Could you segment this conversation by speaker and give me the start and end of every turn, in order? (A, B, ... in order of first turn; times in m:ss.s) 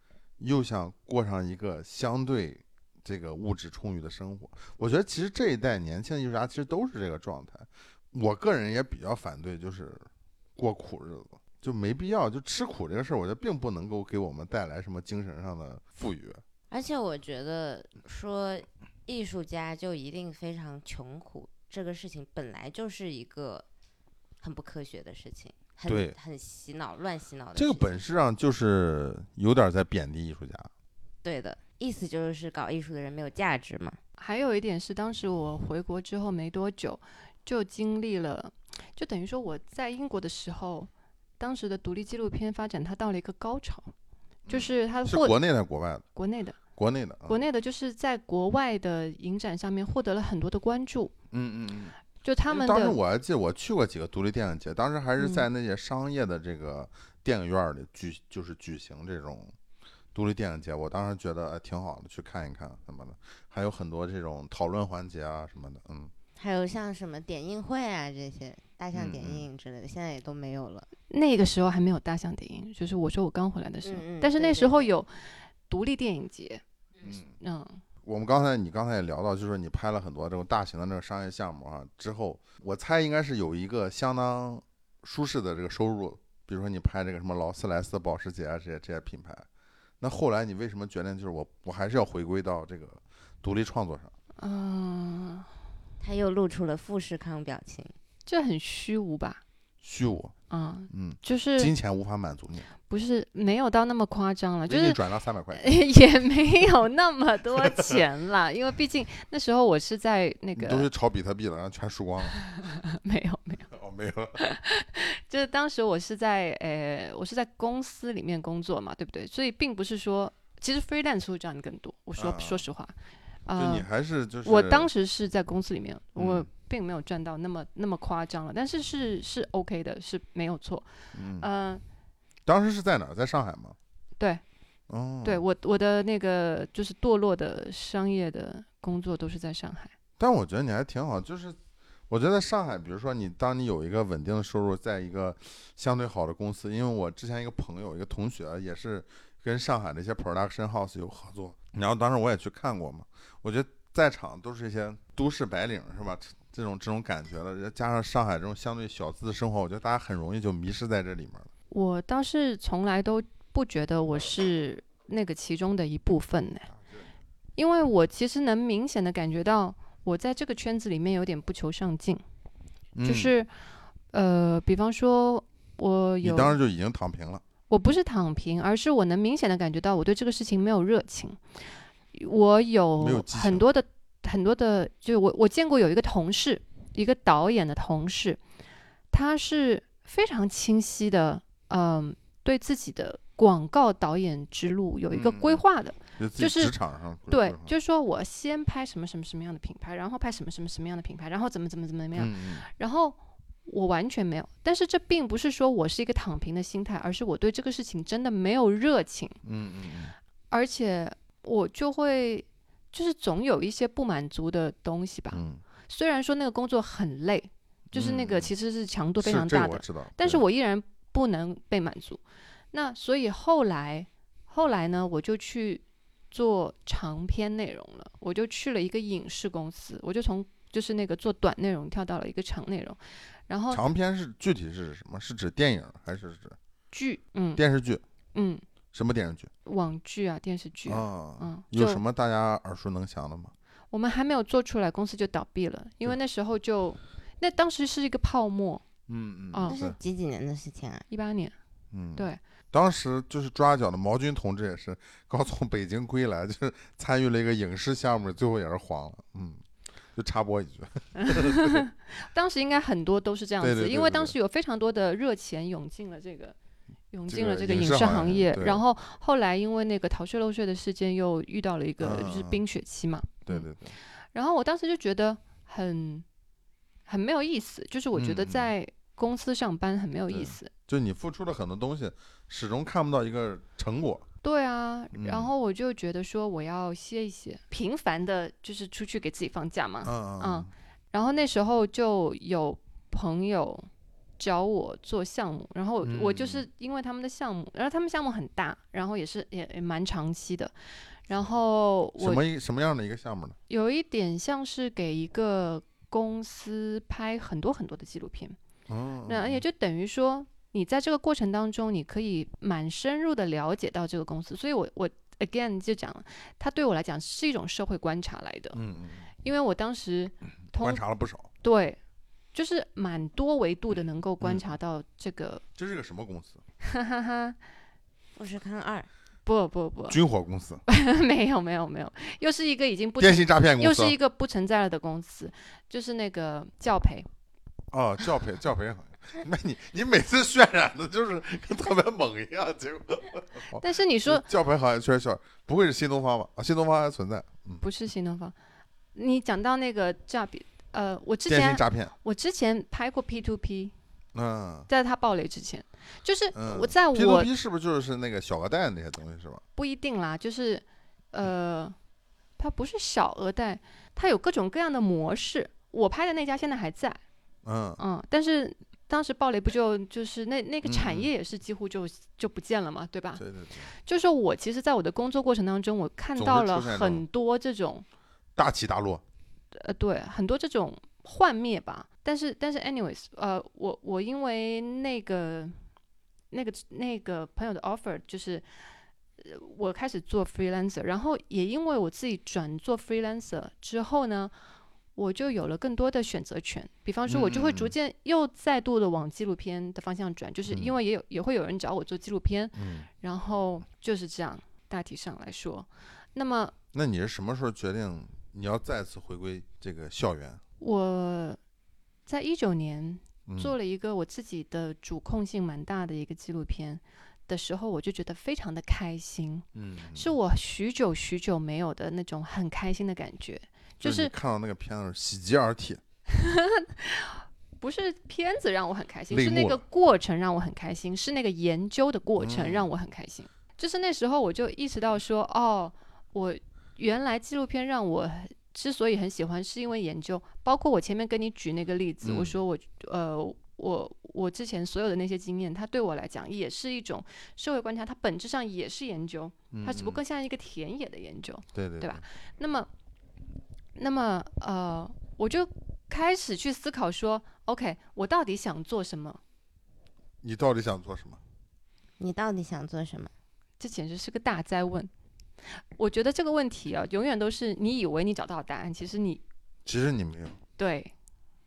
0:00.4-0:10.0 A
0:10.6-0:16.4 A
0:16.7-0:23.6 B
0:24.4-0:27.9 B
0:25.9-0:26.1 A
0:27.6-0:30.7 A
0:31.2-0:34.0 B
0:34.2-0:43.9 C
0:44.4-0:46.0 A
0:44.5-0:45.4 C
0:46.1-0:46.6 C
0:46.7-0:47.4 A
0:47.3-0:51.1 C
0:51.3-0:51.9 A
0:52.2-0:53.0 C
0:52.5-0:59.5 A
0:55.2-0:55.4 C
1:00.1-1:06.1 A
1:06.4-1:10.9 B
1:08.9-1:09.4 A
1:11.1-1:16.6 C
1:13.8-1:14.9 B
1:17.0-1:17.3 A
1:17.4-1:17.8 C
1:18.0-1:29.4 A
1:30.0-1:34.1 A
1:34.4-1:35.5 C
1:36.0-1:37.9 B
1:38.3-1:39.4 C
1:39.8-1:40.3 A
1:40.5-1:41.7 C
1:40.9-1:42.7 A
1:42.9-1:45.0 C
1:44.7-1:45.6 A
1:45.5-1:50.9 C
1:47.6-1:48.0 A
1:50.6-1:52.4 A
1:52.4-1:53.7 C
1:53.7-1:54.4 A
1:54.4-2:02.9 C
2:02.2-2:02.6 A
2:03.4-2:03.8 C
2:03.6-2:04.9 A
2:04.4-2:10.8 C
2:06.2-2:06.5 A
2:11.1-2:11.5 A
2:11.4-2:11.8 C
2:12.4-2:13.8 A
2:14.9-2:15.4 A
2:15.2-2:19.9 C
2:20.2-2:21.6 A
2:22.1-2:41.5 A
2:41.7-2:46.7 C
2:47.6-2:52.2 C
2:52.9-2:53.3 A
2:53.0-2:53.5 C
2:54.1-2:56.5 C
2:56.2-2:57.4 A
2:57.7-3:01.4 C
3:02.1-3:08.4 C
3:03.0-3:03.6 A
3:09.1-3:16.7 C
3:15.1-3:15.6 A
3:16.2-3:17.7 A
3:17.3-3:29.4 C
3:22.1-3:22.6 A
3:29.4-3:30.1 A
3:30.5-3:42.2 C
3:35.3-3:35.6 A
3:37.9-3:38.5 A
3:39.2-3:40.4 A
3:42.7-3:53.8 C
3:53.7-3:56.6 A
3:56.9-3:57.6 C
3:57.6-3:58.0 A
3:58.3-3:58.6 C
3:58.9-3:59.5 A
3:59.6-4:02.0 C
4:00.8-4:03.5 A
4:03.9-4:08.8 C
4:09.1-4:10.0 A
4:09.6-4:11.0 B
4:11.1-4:11.5 C
4:11.9-4:19.6 A
4:20.1-4:21.8 A
4:21.2-4:26.6 C
4:23.6-4:24.3 A
4:27.1-4:33.7 C
4:27.3-4:28.8 A
4:32.0-4:32.6 A
4:33.4-4:33.9 A
4:34.3-4:36.2 C
4:37.1-4:40.7 C
4:38.1-4:38.7 A
4:40.3-4:44.2 A
4:44.4-4:53.9 C
4:45.1-4:45.5 A
4:50.0-4:50.7 A
4:54.4-5:00.7 C
4:56.0-4:56.6 A
5:01.3-5:02.4 C
5:02.2-5:03.6 A
5:03.7-5:08.6 C
5:08.9-5:09.6 A
5:09.3-5:18.8 C
5:18.7-5:19.3 A
5:19.4-5:21.0 C
5:20.8-5:21.5 A
5:21.6-5:22.0 C
5:22.5-5:25.6 C
5:25.8-5:26.6 A
5:26.8-5:27.6 C
5:28.4-5:29.1 B
5:29.4-5:30.2 C
5:30.1-5:30.8 A
5:30.9-5:37.3 C
5:33.2-5:34.2 A
5:37.9-5:47.8 A
5:43.7-5:44.4 C
5:47.8-5:48.5 C
5:49.1-5:53.9 C
5:51.5-5:52.1 A
5:54.3-5:54.9 A
5:54.9-5:57.5 C
5:56.5-5:59.6 A
5:59.8-6:01.9 C
6:02.6-6:07.2 C
6:07.6-6:08.0 A
6:08.0-6:13.4 C
6:10.8-6:11.3 A
6:13.4-6:13.9 A
6:14.0-6:18.0 C
6:16.4-6:17.2 A
6:18.6-6:19.2 A
6:19.7-6:25.7 C
6:26.5-6:28.6 C
6:29.4-6:34.5 C
6:35.2-6:46.7 C
6:37.3-6:37.9 A
6:40.7-6:41.0 A
6:42.8-6:43.1 A
6:46.9-6:50.6 A
6:50.8-6:51.6 C
6:52.2-7:04.3 C
6:53.5-6:53.7 A
6:59.7-7:00.3 A
7:04.0-7:06.0 A
7:06.3-7:32.9 C
7:09.3-7:09.8 A
7:12.4-7:12.9 A
7:22.2-7:22.6 A
7:29.7-7:30.2 A
7:31.7-7:32.2 A
7:34.0-7:39.4 C
7:40.4-7:41.4 A
7:42.2-7:43.3 B
7:43.8-7:45.1 C
7:46.0-7:49.4 C
7:49.8-7:50.6 A
7:50.8-7:51.1 C